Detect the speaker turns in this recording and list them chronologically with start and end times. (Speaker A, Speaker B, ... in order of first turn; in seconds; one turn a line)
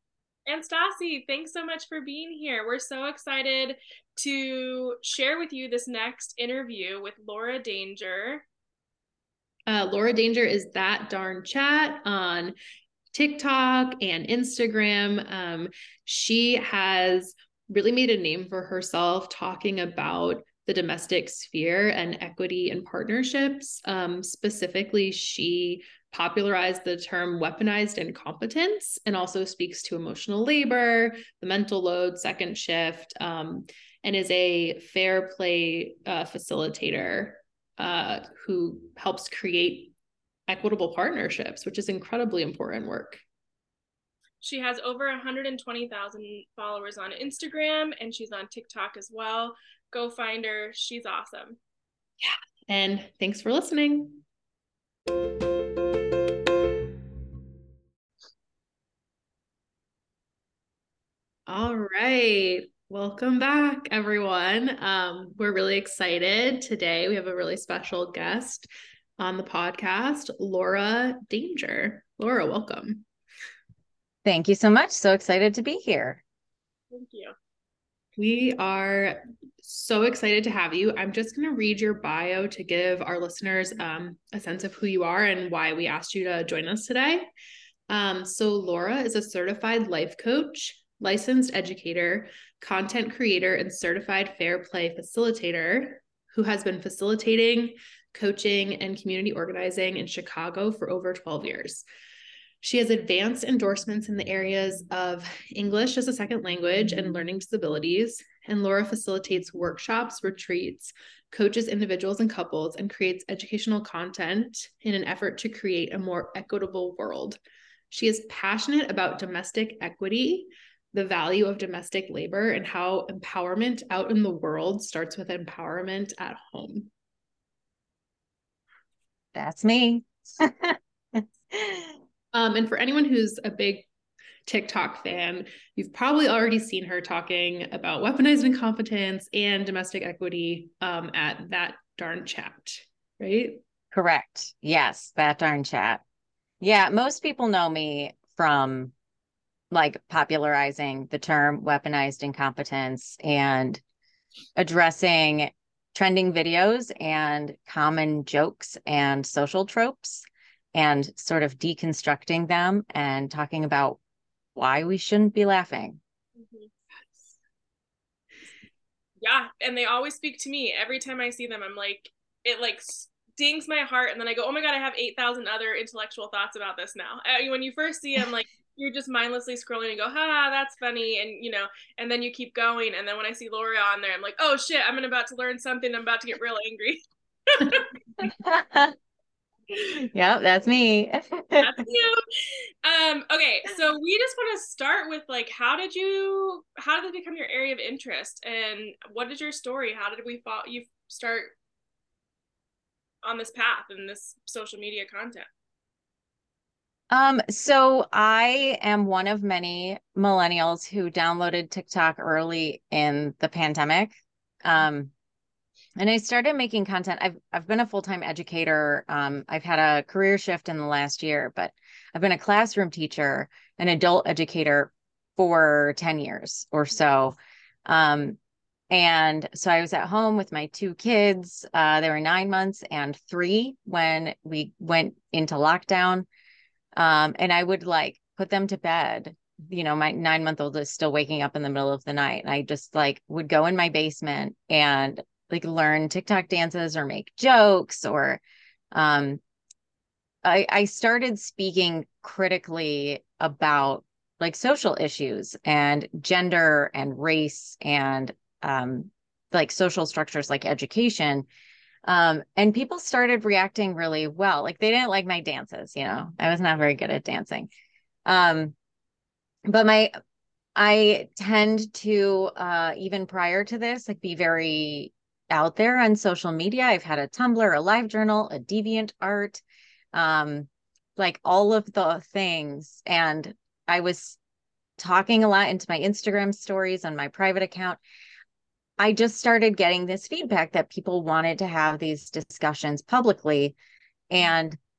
Speaker A: 0.5-8.4
Speaker B: 9.7-12.6
Speaker B: 13.1-39.9
Speaker B: 40.5-43.2
Speaker A: 44.4-51.6
Speaker B: 52.2-54.2
Speaker B: 61.5-73.0
Speaker C: 74.2-76.2
Speaker A: 76.9-77.3
Speaker B: 78.2-87.3
Speaker B: 87.9-101.8
Speaker B: 102.6-117.4
Speaker B: 117.9-126.9
Speaker C: 129.3-132.0
Speaker B: 132.3-133.8
Speaker B: 134.4-143.6
Speaker C: 143.9-146.0
Speaker C: 146.6-148.9
Speaker C: 149.7-153.8
Speaker C: 154.6-164.0
Speaker C: 164.5-166.0
Speaker A: 166.4-166.7
Speaker A: 169.2-187.9
Speaker C: 188.2-188.9
Speaker C: 189.7-191.8
Speaker A: 191.6-201.5
Speaker A: 203.2-205.5
Speaker C: 207.1-215.1
Speaker C: 216.0-228.4
Speaker C: 228.9-236.2
Speaker C: 236.9-249.4
Speaker C: 250.4-261.4
Speaker C: 262.1-267.7
Speaker C: 268.2-268.7
Speaker C: 269.7-270.1
Speaker C: 270.8-279.6
Speaker C: 280.1-284.4
Speaker C: 285.0-288.0
Speaker C: 289.0-293.8
Speaker C: 294.3-294.8